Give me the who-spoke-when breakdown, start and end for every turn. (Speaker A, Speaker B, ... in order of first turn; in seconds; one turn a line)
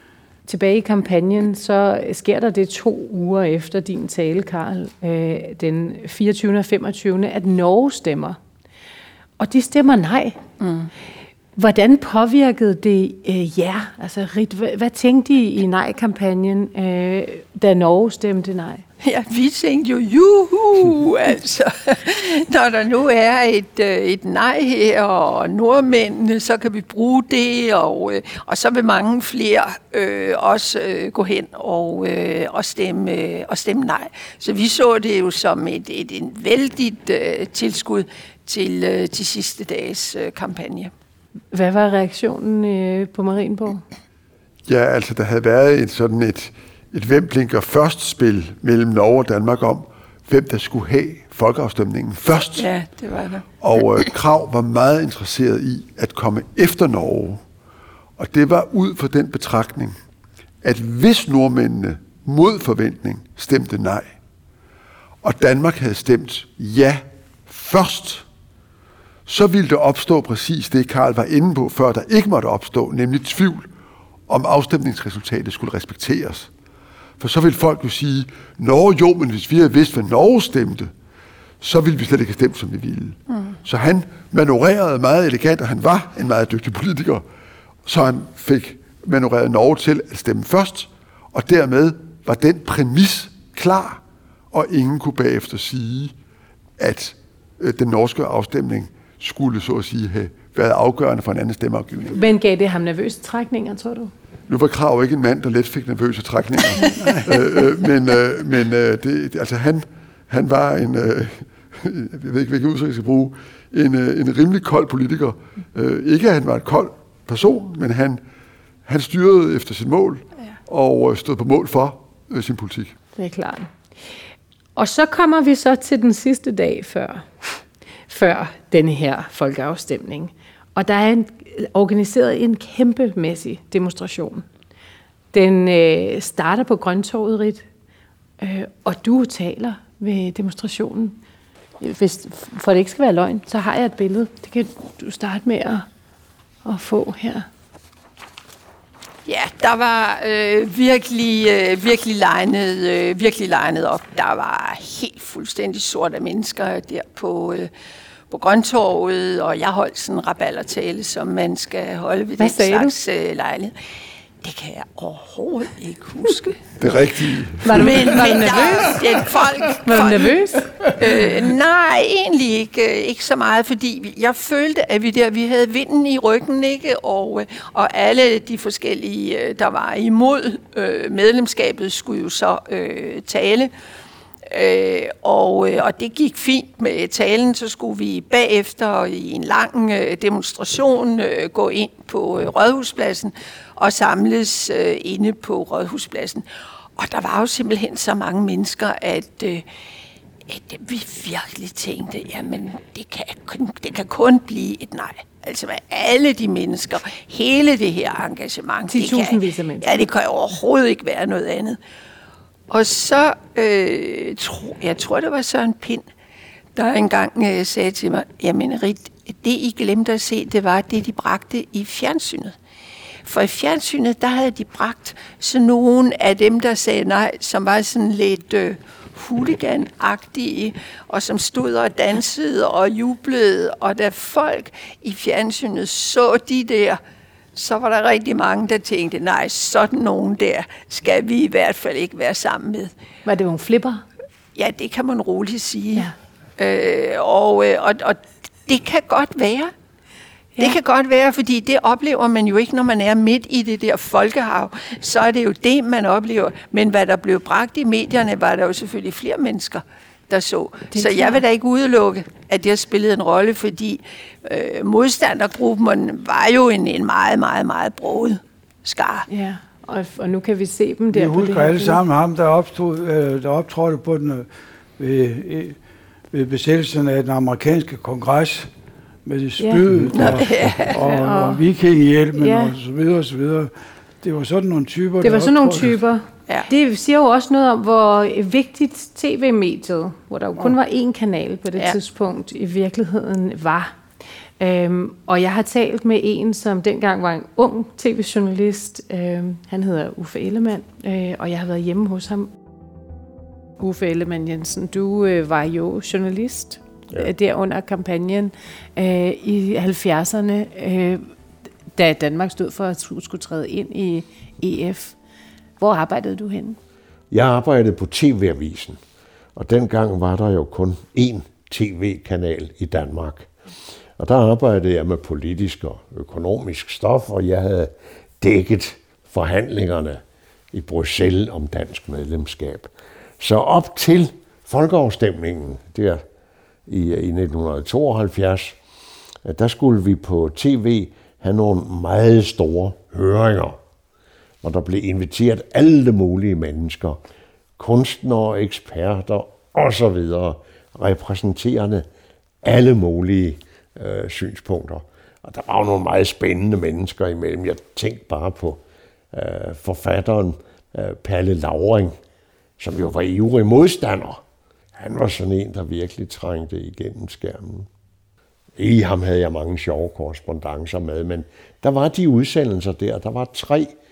Speaker A: 0.5-8.4
Speaker A: 9.4-10.4
Speaker B: 10.6-10.9
Speaker A: 11.6-18.8
Speaker B: 19.0-40.9
Speaker A: 41.5-43.8
Speaker C: 44.7-52.7
Speaker B: 52.5-53.5
Speaker C: 53.6-57.4
Speaker C: 58.2-60.0
Speaker C: 60.6-64.2
Speaker C: 65.2-68.2
Speaker C: 69.3-73.7
Speaker C: 74.3-76.5
Speaker C: 77.2-80.9
Speaker C: 81.6-87.2
Speaker C: 87.9-94.0
Speaker C: 94.5-96.1
Speaker C: 96.8-102.2
Speaker A: 102.1-104.1
Speaker C: 104.5-118.2
Speaker C: 118.9-123.0
Speaker A: 123.2-123.7
Speaker A: 124.8-134.4
Speaker A: 135.3-137.7
Speaker A: 138.4-141.2
Speaker A: 141.8-145.9
Speaker A: 146.7-147.5
Speaker B: 149.3-157.7
Speaker B: 158.3-163.7
Speaker A: 162.4-162.9
Speaker B: 164.4-166.6
Speaker C: 166.8-168.4
Speaker A: 167.6-169.1
Speaker B: 167.7-170.4
Speaker A: 169.8-170.7
Speaker B: 171.0-183.7
Speaker B: 184.5-196.4
Speaker B: 197.0-199.7
Speaker B: 200.5-211.8
Speaker A: 208.9-210.1
Speaker B: 212.7-216.1
Speaker B: 216.8-222.6
Speaker B: 223.2-237.0
Speaker B: 237.6-242.9
Speaker A: 243.3-244.0
Speaker B: 244.6-249.7
Speaker B: 250.6-269.3
Speaker A: 260.9-261.4
Speaker A: 269.3-272.0
Speaker D: 271.1-275.8
Speaker D: 276.3-278.7
Speaker D: 279.2-286.0
Speaker B: 280.1-281.0
Speaker A: 281.0-281.6
Speaker A: 282.4-282.7
Speaker A: 285.2-294.0
Speaker A: 294.6-302.5
Speaker A: 303.8-311.3
Speaker A: 311.9-315.2
Speaker A: 315.8-316.8
Speaker E: 317.3-319.0
Speaker E: 319.6-323.5
Speaker E: 324.2-336.2
Speaker E: 336.9-338.8
Speaker E: 339.4-343.8
Speaker E: 344.6-347.2
Speaker E: 347.8-352.1
Speaker E: 352.6-358.8
Speaker E: 359.3-362.1
Speaker E: 362.8-364.4
Speaker E: 365.0-367.9
Speaker E: 368.8-373.9